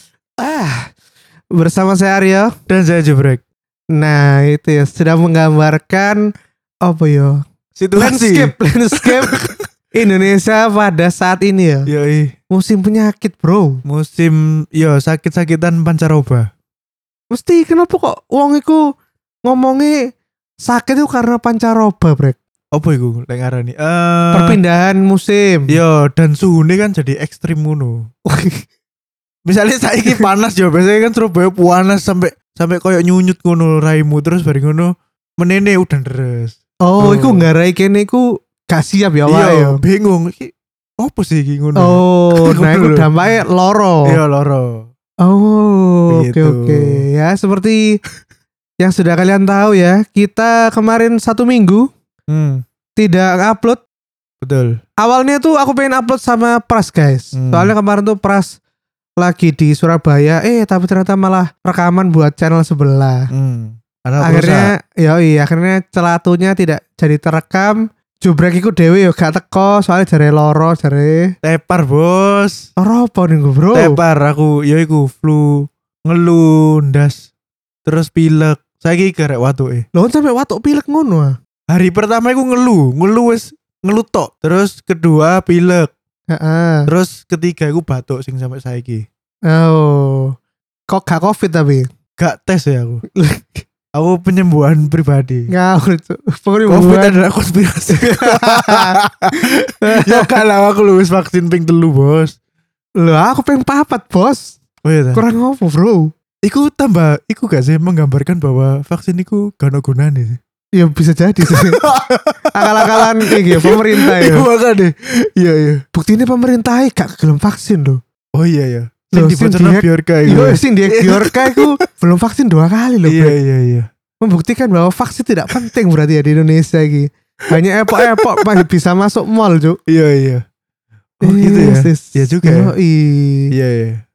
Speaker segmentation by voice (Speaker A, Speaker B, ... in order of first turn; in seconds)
Speaker A: 0.4-0.9, 1.5-2.5, 3.9-6.3, 6.8-7.4, 8.0-9.4, 9.9-11.9, 12.5-13.8, 17.3-18.9, 19.4-22.4, 24.3-25.7, 28.2-28.6, 36.8-39.8, 41.8-44.2, 45.2-48.0, 48.8-51.9, 53.0-53.8, 55.0-58.5, 59.2-63.3, 64.2-71.3, 72.8-74.0, 79.9-81.3, 86.3-86.9, 89.5-90.3, 90.9-91.9, 93.1-93.6, 95.5-97.2, 97.9-100.4, 103.0-104.6, 105.1-106.1, 110.8-111.8, 112.5-114.5, 115.9-118.0, 119.1-123.3, 124.2-129.8, 131.2-133.5
Speaker B: 2.7-3.4, 7.8-9.7, 11.9-12.3, 13.8-16.5, 22.7-24.6, 25.7-28.1, 29.4-37.5, 39.3-43.1, 44.0-44.9, 46.1-47.0, 52.3-52.6, 54.4-54.8, 57.3-57.7, 63.3-64.7, 71.4-72.7, 73.7-77.3, 77.8-79.8, 81.7-85.9, 86.9-89.0, 92.2-93.0, 93.9-95.5, 96.7-102.3, 104.8-105.2, 106.4-110.4, 111.5-115.8, 118.3-121.7, 123.0-123.9, 127.9-128.6, 129.9-130.4, 131.2-132.7, 133.5-134.0